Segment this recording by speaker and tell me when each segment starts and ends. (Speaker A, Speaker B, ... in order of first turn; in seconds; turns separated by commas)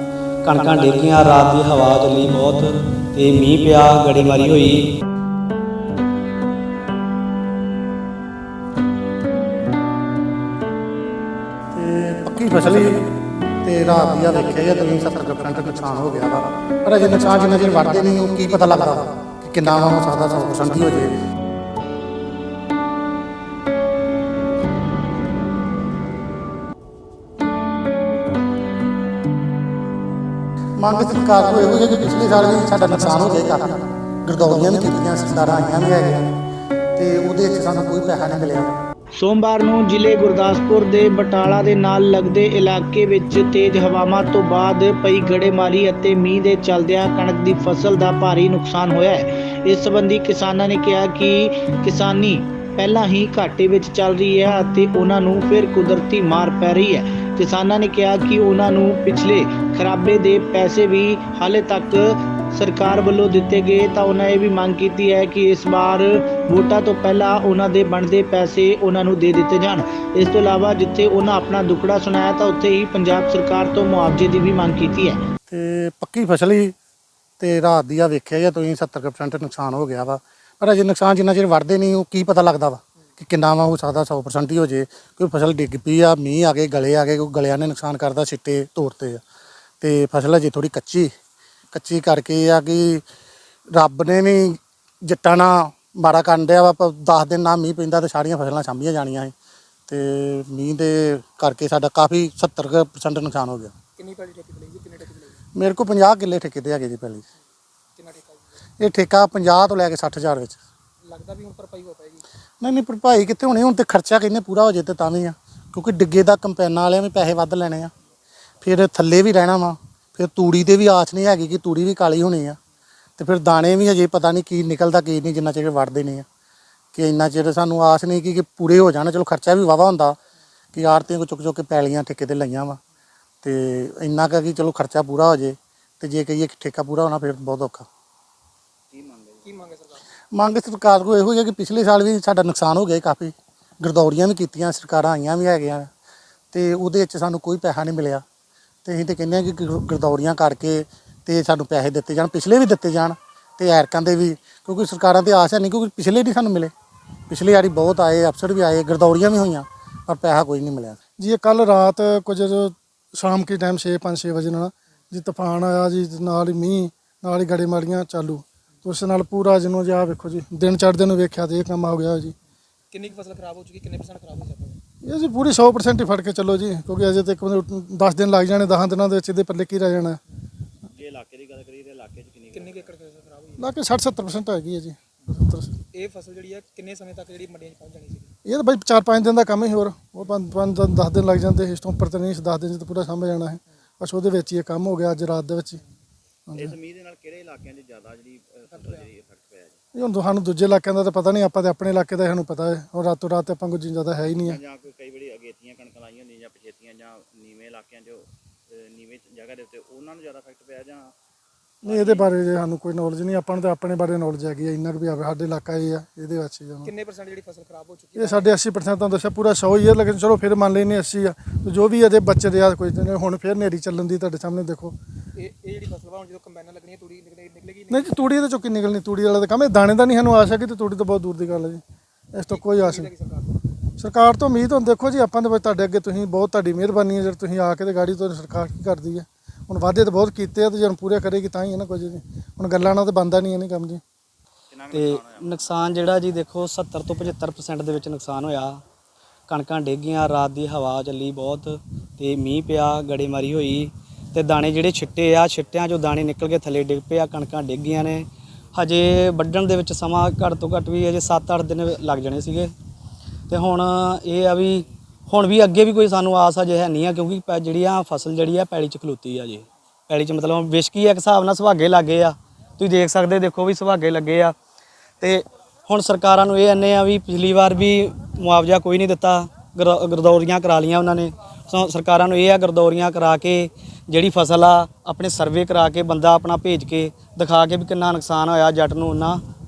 Speaker A: 0.4-4.9, Speaker B: 11.7-13.1, Speaker B: 13.6-21.1, Speaker B: 30.8-36.3, Speaker B: 37.0-38.7, Speaker C: 39.2-62.0, Speaker C: 62.6-75.2, Speaker B: 75.5-76.7, Speaker B: 77.4-89.2, Speaker B: 89.8-91.1, Speaker B: 91.7-93.0, Speaker B: 93.7-99.3, Speaker B: 99.9-103.7, Speaker D: 104.0-105.4, Speaker B: 105.5-107.2, Speaker D: 108.0-108.4, Speaker B: 108.8-110.6, Speaker D: 111.0-112.2, Speaker B: 112.6-117.9, Speaker B: 118.6-122.6, Speaker B: 123.2-126.2, Speaker B: 126.9-130.2, Speaker B: 130.7-132.8, Speaker B: 133.4-137.9, Speaker E: 138.9-139.5, Speaker D: 139.4-140.0, Speaker B: 140.3-145.9, Speaker B: 146.5-148.2, Speaker B: 148.8-156.7, Speaker B: 157.3-161.0, Speaker F: 161.2-172.3, Speaker D: 172.9-174.8, Speaker F: 175.0-180.2, Speaker E: 180.9-183.0, Speaker D: 182.5-183.7, Speaker F: 183.6-185.7, Speaker D: 185.9-188.3, Speaker F: 188.4-195.8, Speaker F: 196.5-196.7, Speaker E: 196.5-199.8, Speaker D: 198.7-199.1, Speaker F: 199.9-204.6, Speaker E: 204.4-211.1, Speaker E: 211.8-212.4, Speaker F: 211.9-216.9, Speaker D: 216.8-218.6, Speaker F: 218.2-224.9, Speaker D: 225.3-228.2, Speaker F: 227.9-231.8, Speaker F: 232.3-233.1, Speaker D: 232.5-233.6, Speaker F: 234.0-244.0, Speaker E: 244.7-245.8, Speaker A: 244.9-248.8, Speaker A: 249.5-262.7, Speaker A: 263.5-274.5, Speaker A: 275.2-289.4